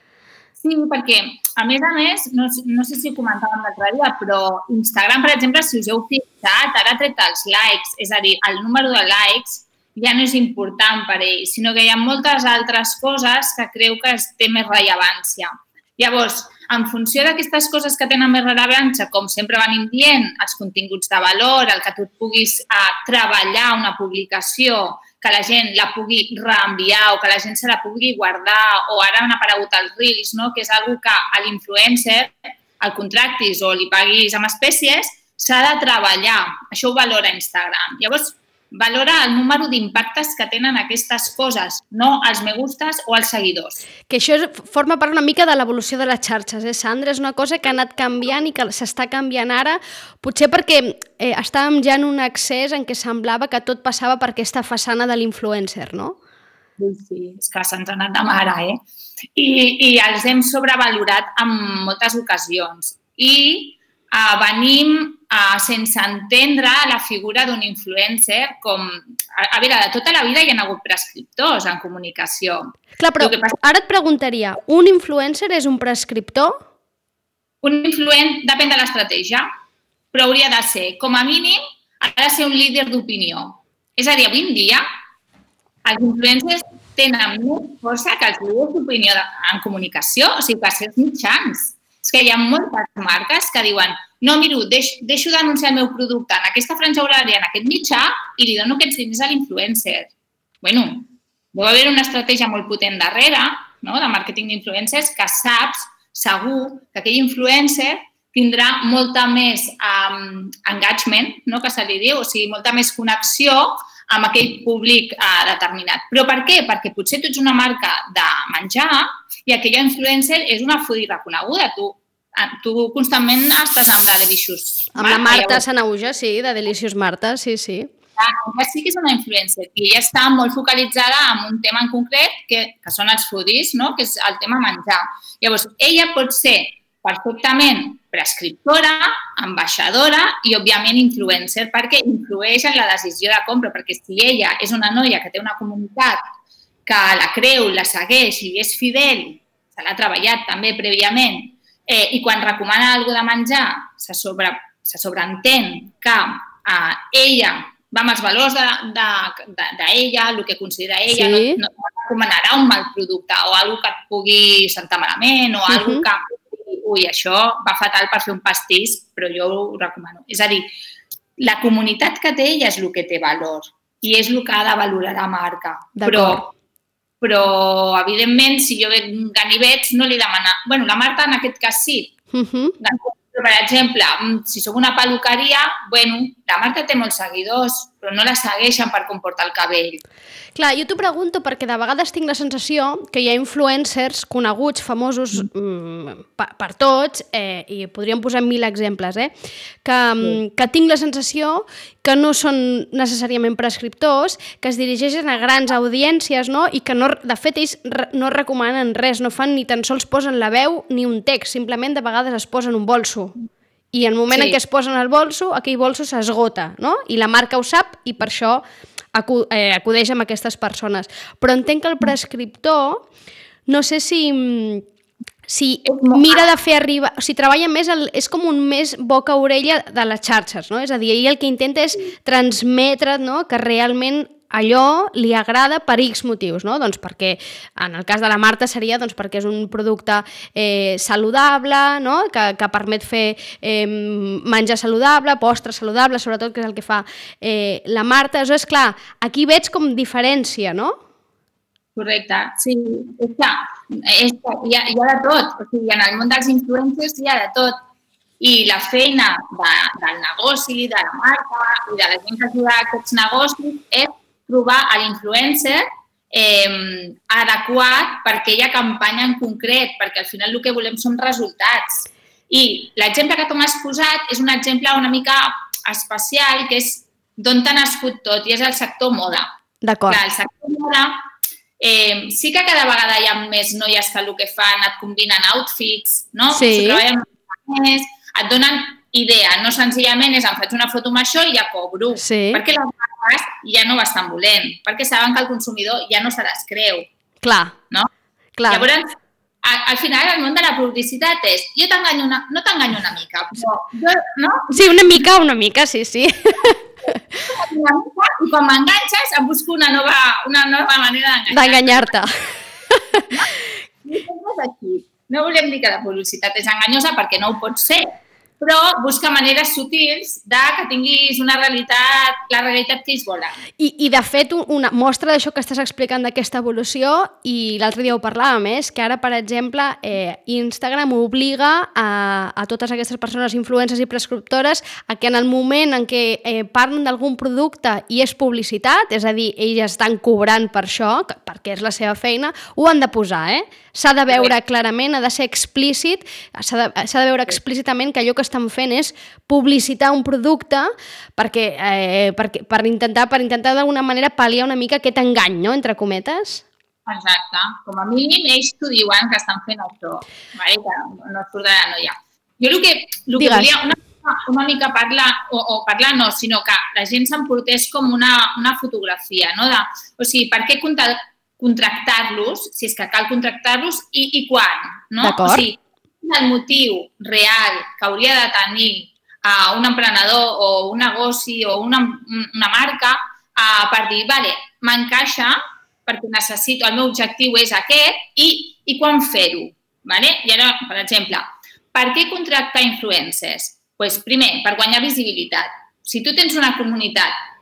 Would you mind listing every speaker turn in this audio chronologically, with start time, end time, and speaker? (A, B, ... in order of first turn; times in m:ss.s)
0:00.6-0:43.8 A
0:44.1-0:56.2 B
0:56.8-0:58.8 A
0:59.3-1:13.6 A
1:13.0-1:16.6 B
1:17.6-1:19.5 A
1:20.1-1:24.8 A
1:25.8-1:40.1 A
1:40.6-2:05.6 A
2:04.9-2:07.9 B
2:08.2-2:26.2 A
2:26.8-2:50.7 A
2:41.1-2:41.6 B
2:45.7-2:46.0 B
2:51.4-2:56.5 A
2:56.0-2:56.5 B
2:57.2-3:02.1 A
3:02.3-3:02.8 B
3:02.8-3:10.0 A
3:10.6-3:19.3 B
3:19.8-3:33.3 B
3:33.9-3:38.6 B
3:34.3-3:34.6 A
3:39.1-3:43.0 B
3:43.7-3:44.8 B
3:45.5-4:11.0 B
3:45.8-3:46.4 A
4:12.0-4:17.8 A
4:18.4-4:39.5 A
4:39.8-4:40.2 B
4:40.1-4:41.2 A
4:41.8-4:57.0 A
4:46.5-4:47.0 B
4:52.2-4:52.6 B
4:57.4-4:57.7 B
4:58.6-4:58.9 B
4:58.7-5:04.7 A
5:04.7-5:06.8 B
5:07.5-5:12.1 A
5:11.5-5:12.3 B
5:12.9-5:13.3 B
5:14.0-5:18.1 A
5:18.6-5:23.6 A
5:23.8-5:56.6 B
5:57.0-6:37.3 A
6:03.4-6:03.7 B
6:15.2-6:15.7 B